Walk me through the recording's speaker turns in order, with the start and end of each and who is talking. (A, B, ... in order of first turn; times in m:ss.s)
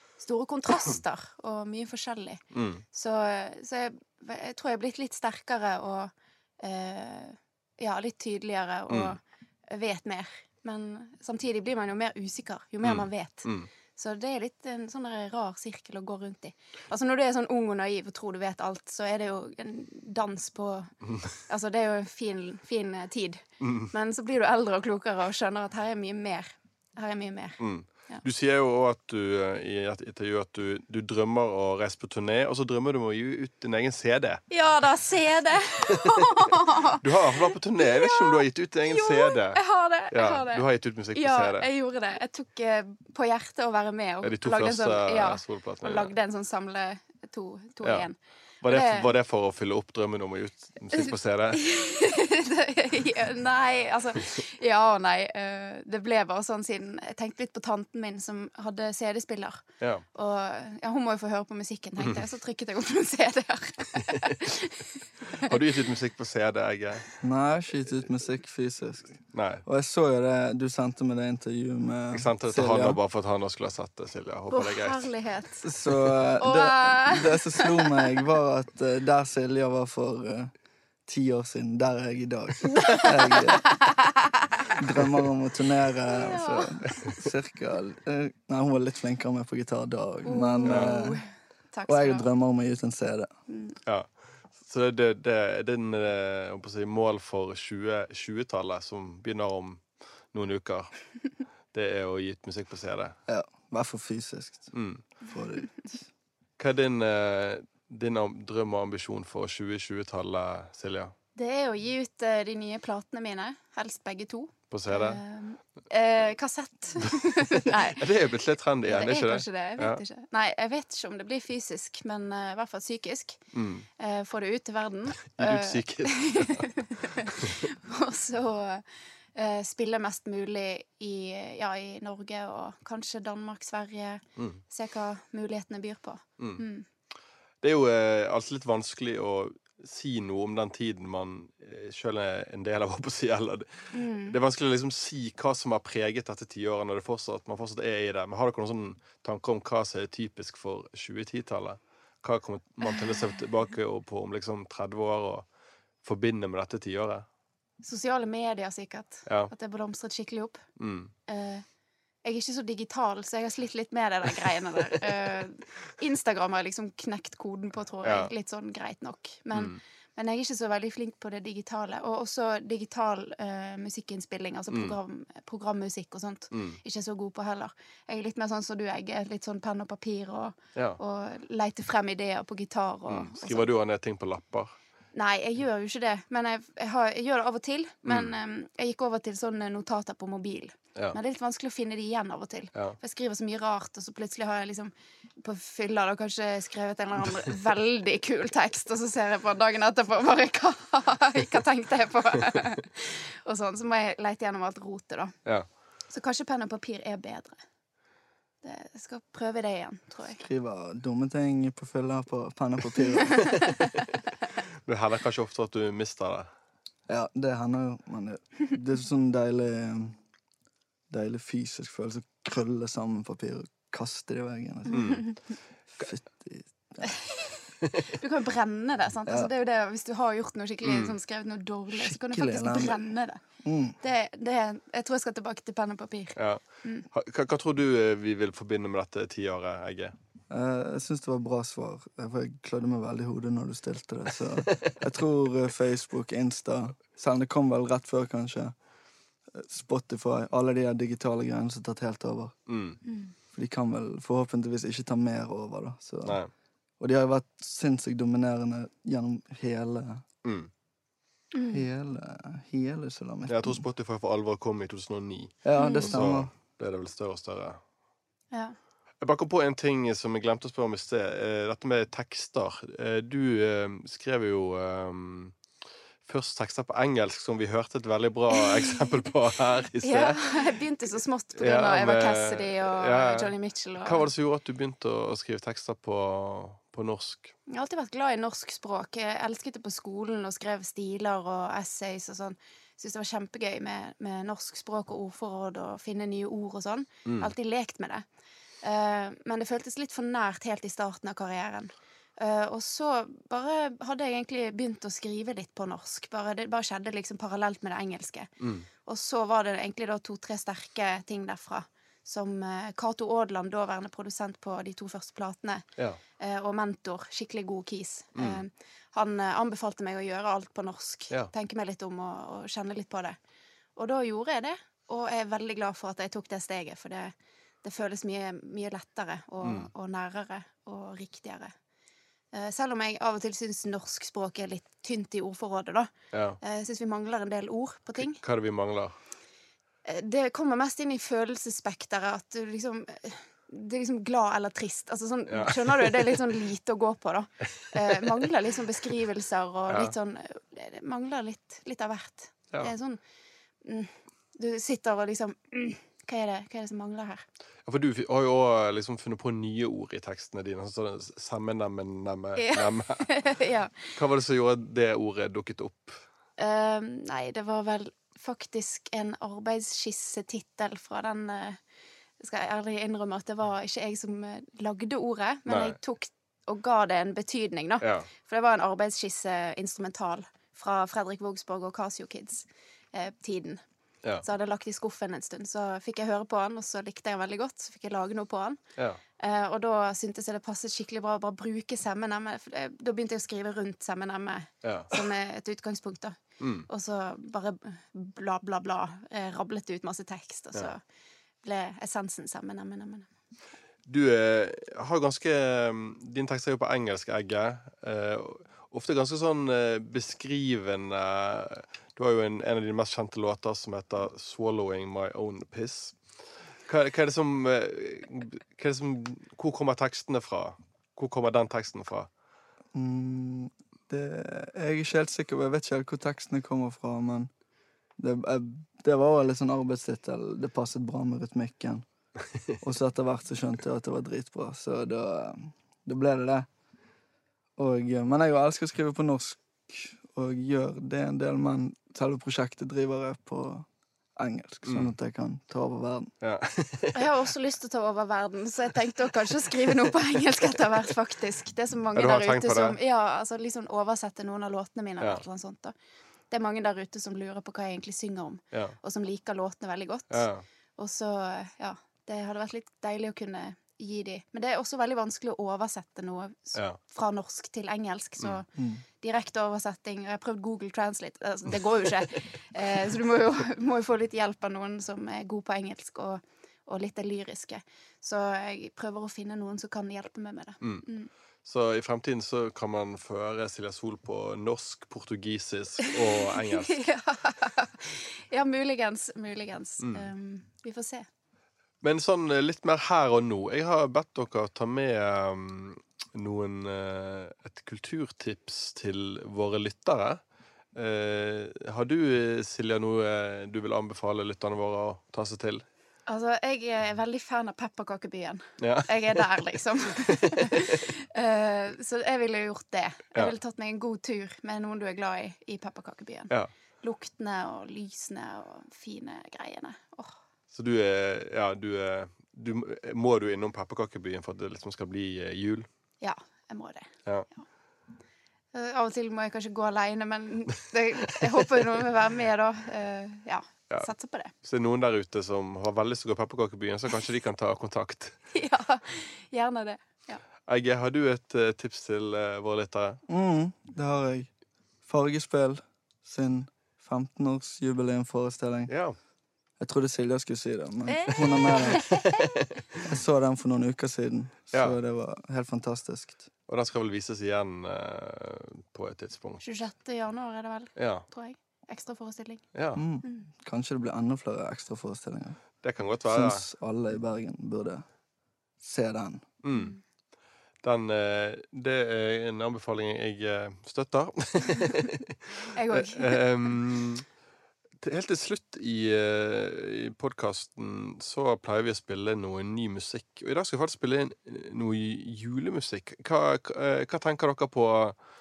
0:00.2-0:20.9 A
0:02.5-0:02.8 B
0:08.9-0:09.1 B
0:12.8-0:13.7 B
0:21.1-0:21.3 B
0:21.5-0:27.6 A
0:23.6-0:23.9 B
0:27.6-0:34.4 B
0:34.5-0:49.1 A
0:36.0-0:36.2 B
0:37.0-0:41.7 B
0:44.2-0:46.1 B
0:47.8-0:48.1 B
0:48.6-0:51.6 B
0:51.5-1:05.6 A
1:05.4-1:07.1 B
1:07.2-1:13.0 C
1:09.3-1:09.6 B
1:12.1-1:15.1 B
1:14.5-1:15.7 A
1:15.6-1:20.5 C
1:16.4-1:18.2 A
1:21.1-1:23.7 C
1:23.7-1:24.1 A
1:24.8-1:31.2 C
1:26.1-1:27.0 A
1:30.2-1:32.3 A
1:30.6-1:31.0 B
1:31.9-1:33.3 C
1:33.5-1:33.8 A
1:33.9-1:41.0 B
1:41.7-1:43.2 B
1:43.3-1:44.8 C
1:44.7-1:45.0 B
1:45.2-1:46.1 C
1:46.6-1:51.1 B
1:51.4-1:58.0 A
1:54.7-1:55.2 B
1:57.2-2:00.0 B
1:58.8-2:03.4 A
2:03.5-2:03.9 B
2:04.0-2:16.9 A
2:05.3-2:06.8 B
2:16.4-2:16.6 B
2:17.6-2:35.5 B
2:23.9-2:24.4 A
2:36.0-2:37.2 B
2:37.8-2:40.6 A
2:39.2-2:39.5 B
2:40.8-2:41.1 B
2:41.3-2:41.6 A
2:42.2-3:03.7 A
2:48.0-2:48.3 B
2:54.7-2:55.0 B
2:56.5-2:56.8 B
3:03.1-3:04.8 B
3:05.1-3:25.4 A
3:08.1-3:08.3 B
3:26.1-3:27.6 A
3:28.6-3:30.4 A
3:30.4-3:33.7 C
3:34.8-3:36.5 B
3:37.1-3:40.2 C
3:41.1-3:45.3 C
3:44.9-3:45.2 B
3:46.0-3:47.1 C
3:47.0-3:53.4 A
3:50.8-3:51.1 B
3:51.9-3:53.0 C
3:53.6-3:54.0 C
3:54.0-3:57.0 A
3:56.4-4:00.1 B
4:00.5-4:08.8 C
4:09.5-4:12.7 C
4:12.7-4:13.0 B
4:13.0-4:13.3 A
4:13.5-4:16.4 C
4:16.2-4:16.5 B
4:17.0-4:20.2 C
4:20.4-4:20.7 B
4:21.5-4:21.8 A
4:21.7-4:23.8 C
4:23.5-4:27.8 B
4:25.6-4:26.5 C
4:25.8-4:26.1 A
4:28.5-4:28.8 A
4:29.2-4:35.6 B
4:36.2-4:40.7 B
4:40.0-4:44.3 A
4:41.6-4:47.5 B
4:47.7-4:58.2 A
4:57.2-4:57.5 B
4:58.8-5:08.5 A
5:08.6-5:08.9 B
5:09.0-5:15.8 A
5:16.4-5:23.4 A
5:24.0-5:31.7 A
5:29.6-5:29.9 B
5:32.5-5:38.4 A
5:36.3-5:36.6 B
5:38.2-5:39.2 B
5:40.0-5:53.2 A
5:45.5-5:46.4 B
5:53.8-5:57.4 A
5:57.8-6:06.2 B
6:02.6-6:04.1 A
6:06.6-6:11.8 A
6:12.4-6:23.8 A
6:15.7-6:16.0 B
6:18.0-6:18.3 B
6:24.4-6:28.8 A
6:29.4-6:41.0 A
6:34.8-6:35.1 B
6:36.6-6:36.9 B
6:41.6-6:43.3 A
6:44.1-6:56.2 B
6:56.9-7:02.3 B
7:02.9-7:07.5 C
7:08.2-7:12.0 C
7:12.8-7:16.7 C
7:17.8-7:26.3 C
7:24.8-7:25.1 B
7:26.4-7:27.3 B
7:27.1-7:36.0 A
7:32.2-7:33.0 B
7:36.5-8:01.3 A
7:40.3-7:40.6 B
7:48.8-7:49.0 C
8:01.6-8:07.1 B
8:06.1-8:11.2 A
8:12.0-8:20.4 B
8:21.0-8:25.8 B
8:26.3-8:40.3 A
8:28.8-8:29.5 B
8:40.7-8:45.9 B
8:46.2-8:47.6 A
8:48.7-8:54.5 A
8:54.6-8:58.4 B
8:58.5-9:00.4 A
9:00.7-9:03.2 B
9:03.3-9:04.5 C
9:05.0-9:08.9 C
9:08.9-9:09.2 B
9:09.8-9:12.3 C
9:11.1-9:12.4 A
9:11.6-9:12.7 B
9:13.0-9:16.5 C
9:16.7-9:19.6 B
9:19.6-9:22.6 A
9:21.0-9:21.2 B
9:22.8-9:23.0 B
9:23.0-9:25.6 C
9:25.8-9:26.6 B
9:26.3-9:28.0 C
9:28.8-9:29.5 C
9:29.6-9:30.0 B
9:30.8-9:37.2 B
9:35.7-9:36.7 A
9:38.0-9:48.2 B